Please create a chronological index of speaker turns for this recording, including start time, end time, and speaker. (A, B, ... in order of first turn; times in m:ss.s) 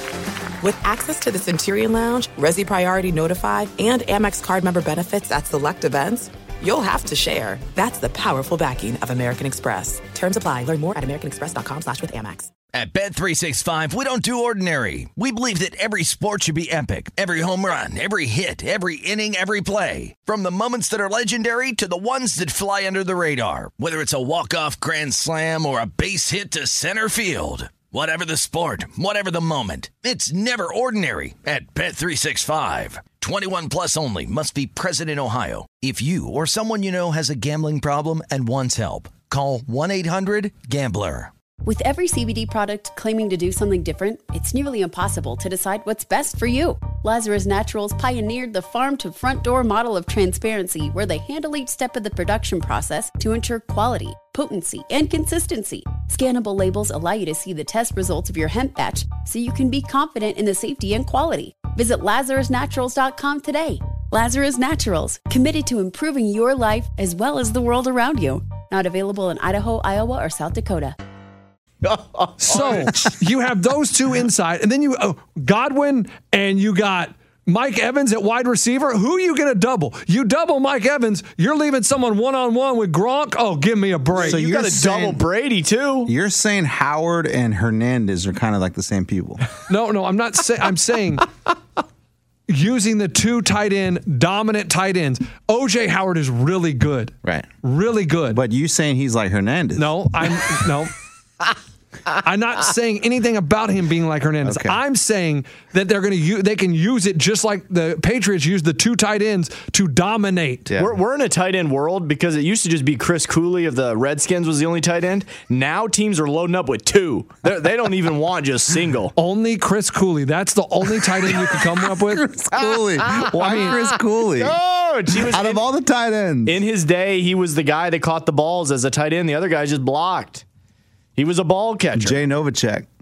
0:00.6-0:12.5 A
0:12.7-0:41.3 B
0:41.6-1:11.0 C
1:11.8-1:13.1 D
1:12.4-1:24.4 E
1:24.1-1:26.1 D
1:24.2-1:25.2 F
1:26.0-1:29.4 F
1:29.7-1:31.3 E
1:32.5-1:38.4 E
1:38.3-1:40.2 F
1:39.8-1:40.9 E
1:42.2-1:50.7 E
1:44.4-1:44.8 F
1:50.8-1:59.1 D
1:59.2-2:02.2 E
2:01.8-2:04.6 F
2:02.5-2:05.6 D
2:03.4-2:03.7 E
2:05.1-2:06.6 F
2:06.4-2:10.4 D
2:11.2-2:12.2 D
2:12.0-2:12.9 F